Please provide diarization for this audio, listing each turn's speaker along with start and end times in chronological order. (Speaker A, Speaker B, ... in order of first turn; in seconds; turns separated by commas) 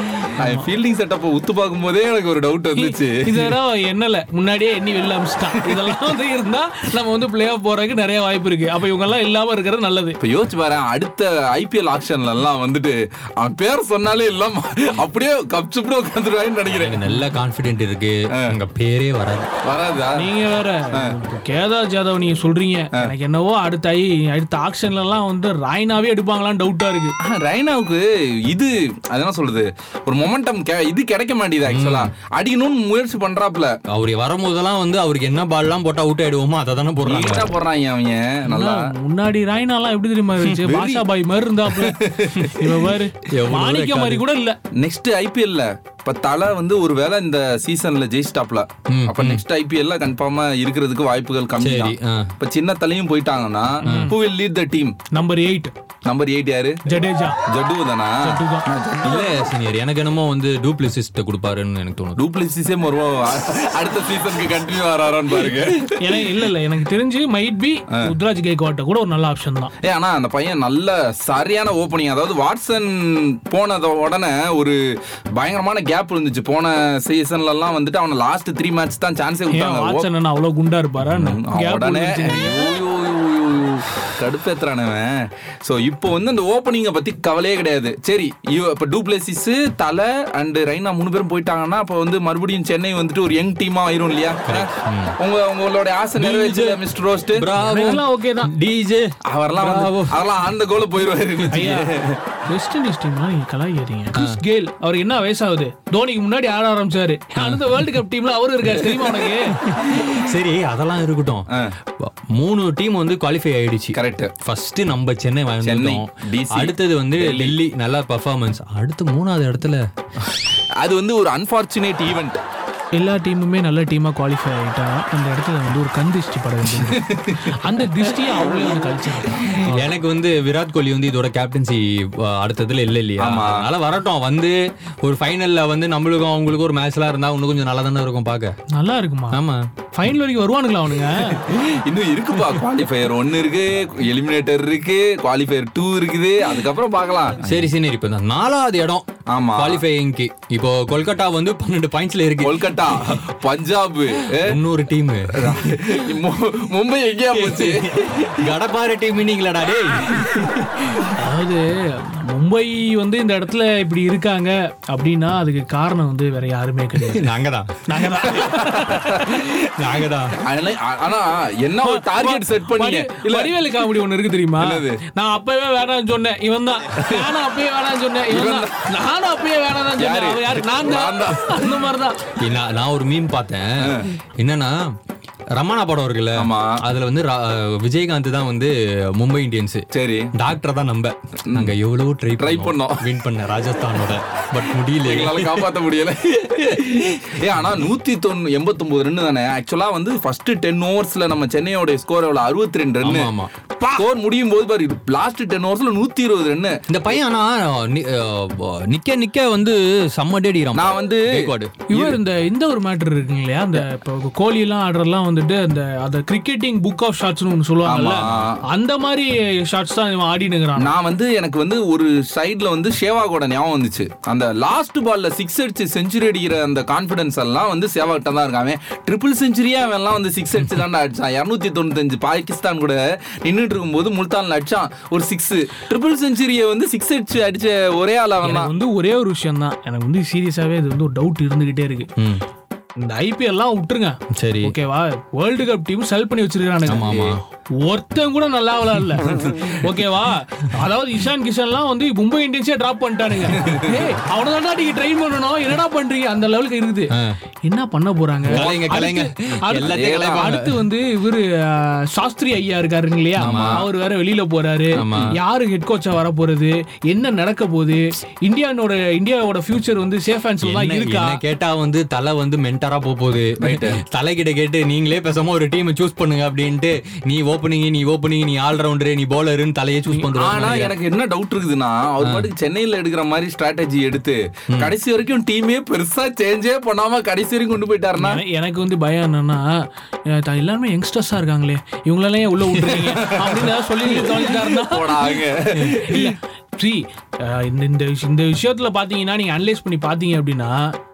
Speaker A: 0.2-0.7, Speaker B: 0.3-3.5, Speaker A: 2.8-10.2, Speaker B: 10.2-17.0, Speaker C: 16.7-19.5, Speaker B: 19.7-20.2, Speaker A: 20.2-27.1, Speaker B: 27.2-33.7, Speaker C: 31.7-32.1, Speaker C: 33.9-37.5, Speaker B: 37.0-38.8, Speaker A: 38.5-44.6, Speaker B: 40.7-41.0, Speaker B: 41.7-42.8, Speaker C: 43.3-44.2, Speaker B: 44.8-55.0, Speaker C: 48.9-49.4, Speaker C: 51.6-52.3, Speaker A: 53.8-54.1, Speaker C: 53.9-54.2, Speaker A: 55.1-55.7, Speaker B: 56.0-56.8, Speaker A: 56.9-57.4, Speaker B: 57.5-59.5, Speaker A: 58.2-58.6, Speaker C: 59.0-62.2, Speaker B: 62.2-66.2, Speaker A: 66.0-69.7, Speaker B: 69.8-74.8, Speaker B: 75.4-80.1, Speaker A: 79.5-82.7, Speaker B: 81.0-97.5, Speaker C: 94.5-95.2, Speaker C: 96.2-96.8, Speaker C: 97.3-100.6, Speaker A: 97.6-98.5, Speaker B: 99.3-102.2, Speaker A: 101.5-101.9, Speaker A: 102.5-109.6, Speaker C: 104.2-104.4, Speaker C: 107.4-108.0, Speaker C: 109.6-111.5, Speaker C: 112.0-119.8, Speaker B: 113.9-114.3, Speaker B: 115.6-117.6, Speaker B: 120.8-122.4, Speaker A: 122.9-129.9, Speaker B: 126.7-127.5, Speaker C: 129.7-138.5, Speaker B: 133.2-133.7, Speaker A: 138.7-139.4, Speaker C: 139.3-139.6, Speaker A: 139.9-141.4, Speaker B: 141.3-147.7, Speaker C: 147.4-153.1, Speaker B: 149.3-149.8, Speaker B: 152.4-154.6, Speaker C: 154.3-155.7, Speaker B: 155.3-158.3, Speaker C: 157.3-160.5, Speaker A: 161.2-167.3, Speaker C: 167.1-167.8, Speaker A: 167.9-169.4, Speaker B: 168.3-169.5, Speaker C: 169.8-170.4, Speaker B: 170.4-173.6, Speaker A: 171.8-182.2, Speaker B: 174.6-175.0, Speaker B: 178.3-178.7, Speaker B: 180.0-181.8, Speaker C: 182.4-184.7, Speaker B: 183.8-184.1, Speaker C: 185.6-195.7, Speaker B: 186.4-186.8, Speaker B: 189.9-190.3, Speaker B: 192.4-193.1, Speaker B: 195.0-207.2, Speaker C: 203.0-203.5, Speaker C: 206.9-211.8, Speaker B: 210.7-212.2, Speaker A: 211.9-220.9, Speaker B: 217.8-218.6, Speaker C: 218.1-218.5, Speaker B: 220.8-238.7, Speaker A: 238.4-242.1, Speaker A: 243.0-247.3, Speaker C: 244.4-244.7, Speaker C: 246.9-247.4, Speaker A: 247.8-257.1, Speaker B: 249.4-249.8, Speaker B: 253.7-253.9, Speaker C: 257.1-257.4, Speaker A: 257.6-271.4, Speaker C: 258.5-260.9, Speaker B: 258.5-259.1, Speaker B: 259.7-260.5, Speaker C: 263.4-263.8, Speaker B: 263.4-263.9, Speaker C: 265.0-265.4, Speaker C: 270.6-280.9, Speaker B: 273.6-274.0, Speaker A: 280.1-280.8, Speaker B: 280.4-288.4, Speaker C: 282.2-282.5, Speaker A: 288.2-289.7, Speaker A: 290.3-300.9, Speaker B: 293.1-293.6, Speaker B: 294.1-296.3